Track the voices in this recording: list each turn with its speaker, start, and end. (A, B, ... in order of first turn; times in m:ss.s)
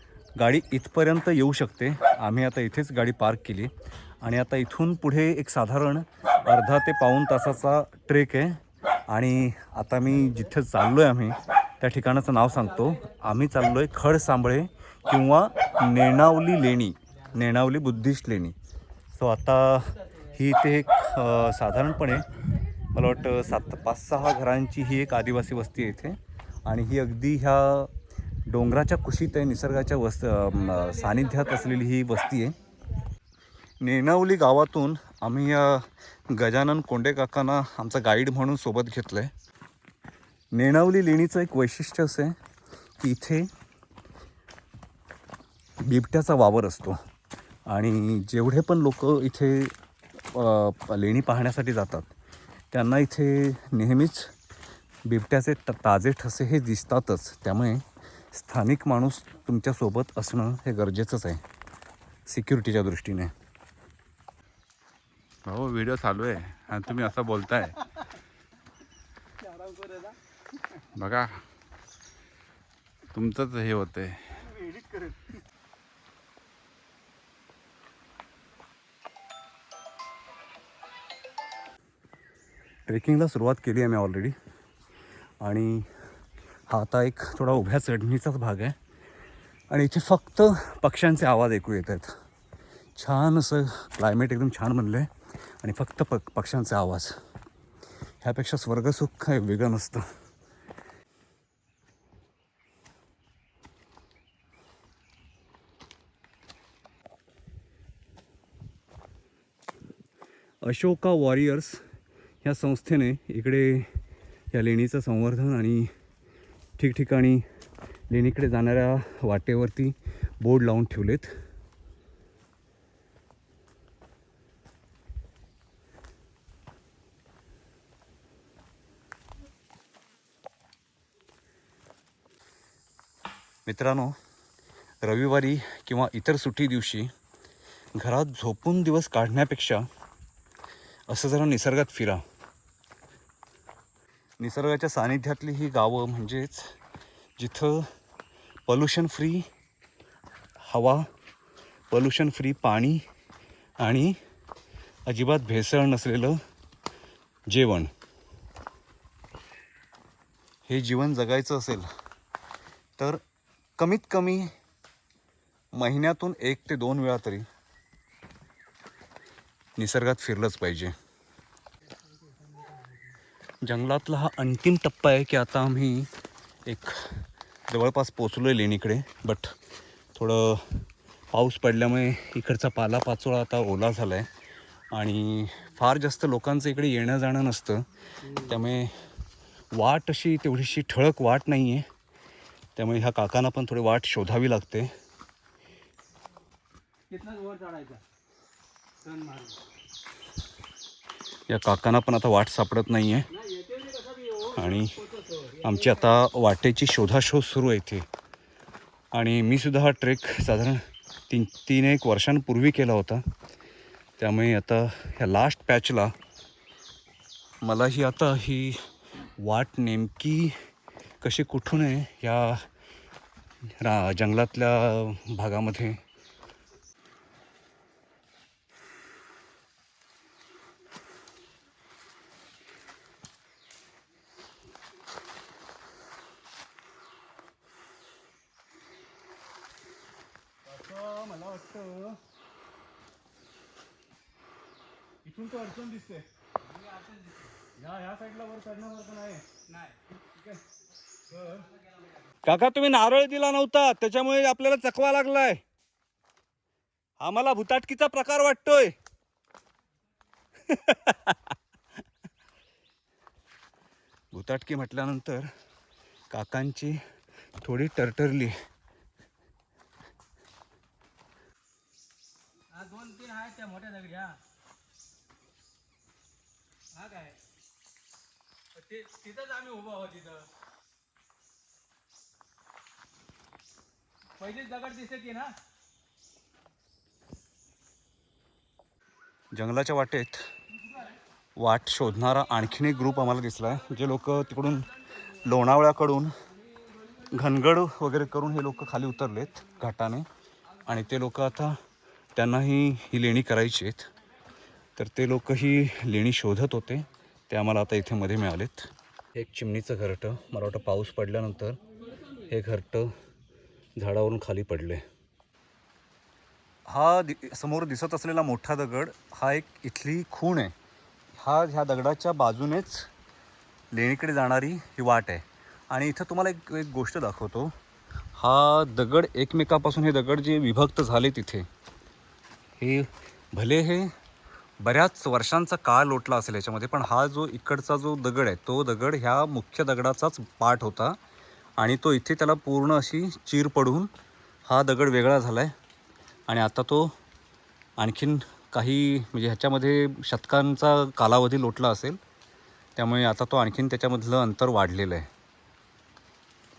0:00.4-0:18.6 A
0:19.1-0:22.3 A
0:22.9-0:27.9 A
0:28.5-0:32.6 A
0:33.8-0:39.3 A
0:40.5-0:42.4 A
0:43.0-0:43.5 A
0:45.8-0:47.0 A
0:47.7-0:49.7 A
0:50.2-0:52.1 A
0:52.7-0:54.3 A
0:55.1-1:01.4 A
1:02.3-1:03.3 A
1:05.4-1:07.8 B
1:09.4-1:10.2 C
1:10.9-1:11.5 B
1:13.1-1:14.4 B
1:14.4-1:15.2 C
1:22.9-1:24.4 A
1:25.4-1:25.9 A
1:26.7-1:28.8 A
1:29.7-1:32.1 A
1:33.0-1:35.1 A
1:35.6-1:37.1 A
1:38.2-1:40.1 A
1:50.6-1:51.8 A
1:52.4-1:53.9 A
1:54.5-1:55.9 A
1:56.8-1:57.4 A
1:58.1-2:01.3 A
2:13.7-2:14.2 A
2:15.0-2:17.1 A
2:18.0-2:19.9 A
2:21.1-2:22.2 A
2:24.4-2:26.7 A
2:27.4-2:27.9 A
2:28.7-2:29.5 A
2:30.6-2:31.1 A
2:31.9-2:33.0 A
2:33.8-2:34.2 A
2:35.1-2:36.4 A
2:37.5-2:37.9 A
2:40.7-2:41.9 A
2:43.8-2:44.5 A
2:45.7-2:47.5 A
2:49.8-2:50.9 A
2:53.6-2:56.1 A
2:56.7-2:59.5 A
3:00.1-3:04.3 A
3:04.9-3:09.0 A
3:09.7-3:11.9 A
3:12.8-3:14.9 A
3:17.1-3:18.0 C
3:19.0-3:19.6 C
3:21.5-3:23.3 A
3:23.4-3:24.5 C
3:24.4-3:28.1 A
3:29.1-3:33.2 A
3:34.2-3:36.1 A
3:37.6-3:38.8 A
3:39.4-3:40.6 A
3:41.2-3:42.7 A
3:43.8-3:46.0 A
4:00.7-4:02.2 A
4:05.3-4:06.2 A
4:06.8-4:07.5 C
4:07.8-4:09.4 A
4:12.4-4:15.6 A
4:17.2-4:19.0 A
4:20.6-4:21.4 A
4:24.3-4:25.5 A
4:26.3-4:27.0 A
4:27.6-4:28.5 A
4:32.7-4:34.4 C
4:37.0-4:37.4 C
4:38.8-4:40.5 C
4:44.4-4:45.6 C
4:49.5-4:50.4 A
4:51.6-4:54.9 A
4:55.4-4:56.3 A
4:57.3-5:00.3 A
5:00.9-5:01.8 A
5:02.4-5:04.1 A
5:05.0-5:11.8 A
5:12.5-5:13.1 A
5:14.0-5:15.0 A
5:16.9-5:20.7 A
5:21.4-5:23.1 A
5:23.9-5:27.7 A
5:28.4-5:31.7 A
5:32.8-5:34.1 A
5:34.8-5:41.2 A
5:41.8-5:44.1 A
5:44.7-5:45.7 A
5:46.5-5:47.2 A
5:48.0-5:52.2 A
5:53.0-5:55.3 A